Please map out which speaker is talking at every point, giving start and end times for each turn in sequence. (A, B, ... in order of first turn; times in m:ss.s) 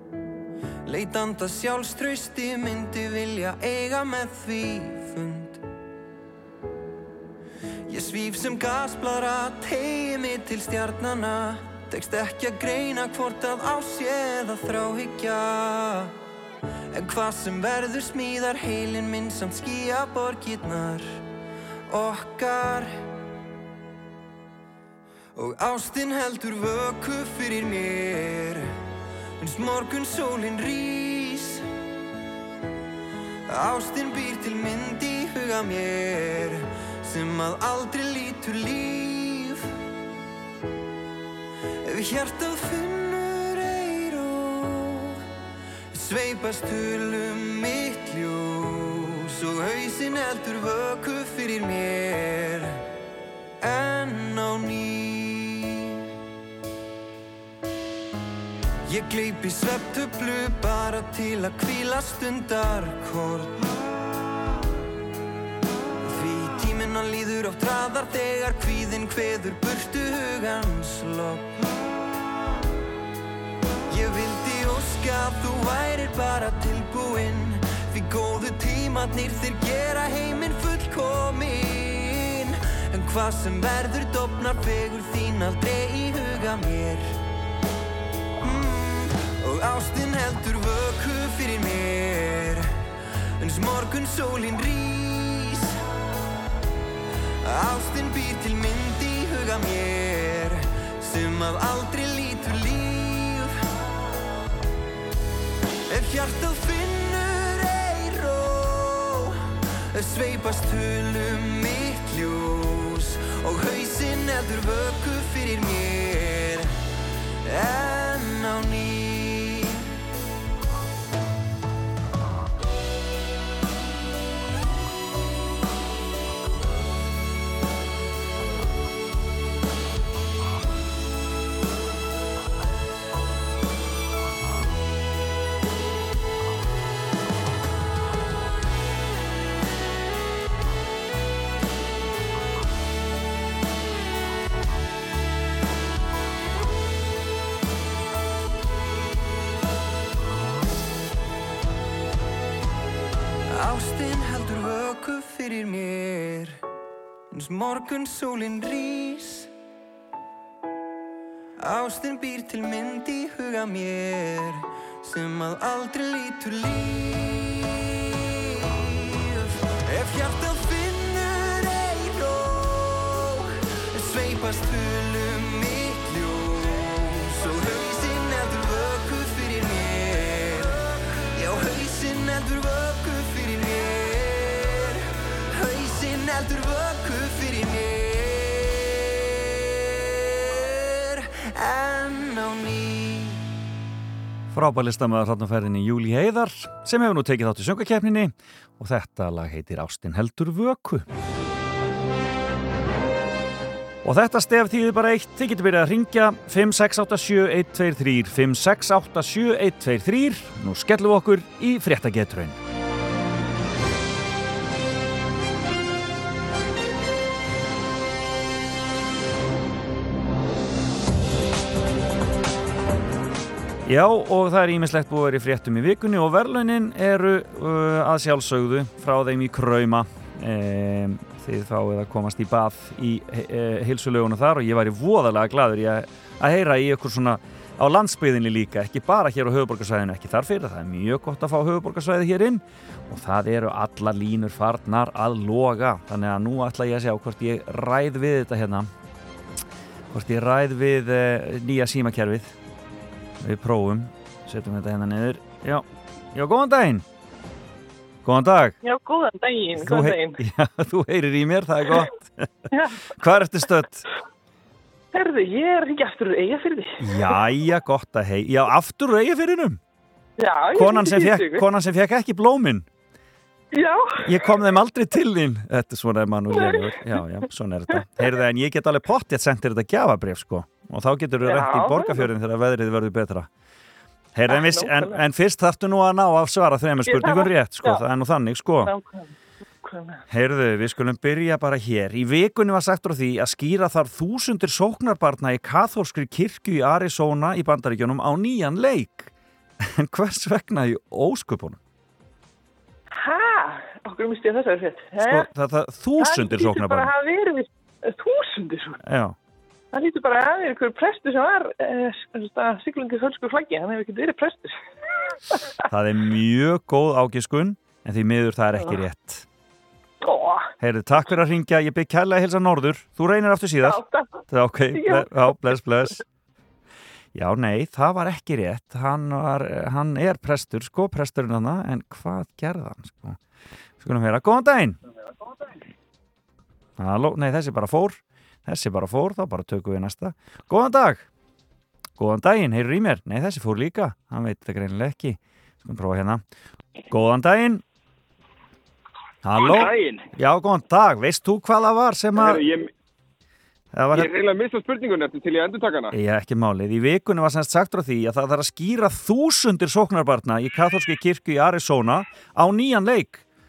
0:00.8-0:05.6 A
0:07.9-0:16.1 A
0:16.9-0:21.2 A
0:21.9-0:22.9 A
0:25.4-0:28.6 A
0:29.4-0:31.6 A
0:33.5-0:39.6 A
0:41.9-0:45.1 A
0:45.9-0:52.7 A
0:53.6-0:55.6 A
0:58.9-1:03.5 A
1:06.0-1:11.4 A
1:13.9-1:27.1 A
1:28.4-1:32.6 A
1:33.4-1:35.7 A
1:37.4-1:43.5 A
1:45.9-1:49.2 A
1:49.9-1:56.6 A
1:57.5-1:59.6 A
2:33.5-2:36.6 A
2:37.3-2:39.5 A
2:41.6-2:47.7 A
2:49.9-2:53.4 A
2:53.9-3:00.7 A
3:01.4-3:04.9 A
3:05.6-3:08.8 A
3:10.5-3:13.4 A
3:14.5-3:21.0 B
3:24.0-3:32.6 B
3:43.8-4:08.9 B
4:10.1-4:12.5 B
4:13.4-4:17.0 B
4:18.2-4:18.8 B
4:18.8-4:20.4 C
4:19.8-4:22.5 B
4:22.7-4:23.0 C
4:23.1-4:24.0 B
4:25.1-4:27.4 C
4:27.0-4:29.8 B
4:30.4-4:31.6 C
4:30.7-4:32.9 B
4:33.7-4:34.4 C
4:34.2-4:43.5 B
4:36.5-4:36.9 C
4:41.4-4:42.3 C
4:44.3-4:48.9 B
4:44.5-4:45.2 C
4:47.1-4:48.0 C
4:48.8-4:49.3 C
4:49.8-4:50.2 C
4:50.3-5:01.8 B
5:03.1-5:05.5 C
5:05.2-5:07.1 B
5:06.2-5:09.0 C
5:09.0-5:09.4 B
5:09.9-5:14.7 C
5:15.9-5:19.4 B
5:20.2-5:20.7 C
5:20.8-5:26.2 B
5:23.8-5:24.4 C
5:24.9-5:25.7 C
5:27.3-5:33.4 B
5:34.0-5:35.0 B
5:37.0-5:41.2 B
5:42.2-5:46.4 B
5:47.1-5:47.8 B
5:49.4-5:52.7 B
5:49.5-5:50.3 D
5:52.3-5:52.9 D
5:53.9-5:54.3 B
5:54.1-5:56.1 D
5:56.1-6:03.4 B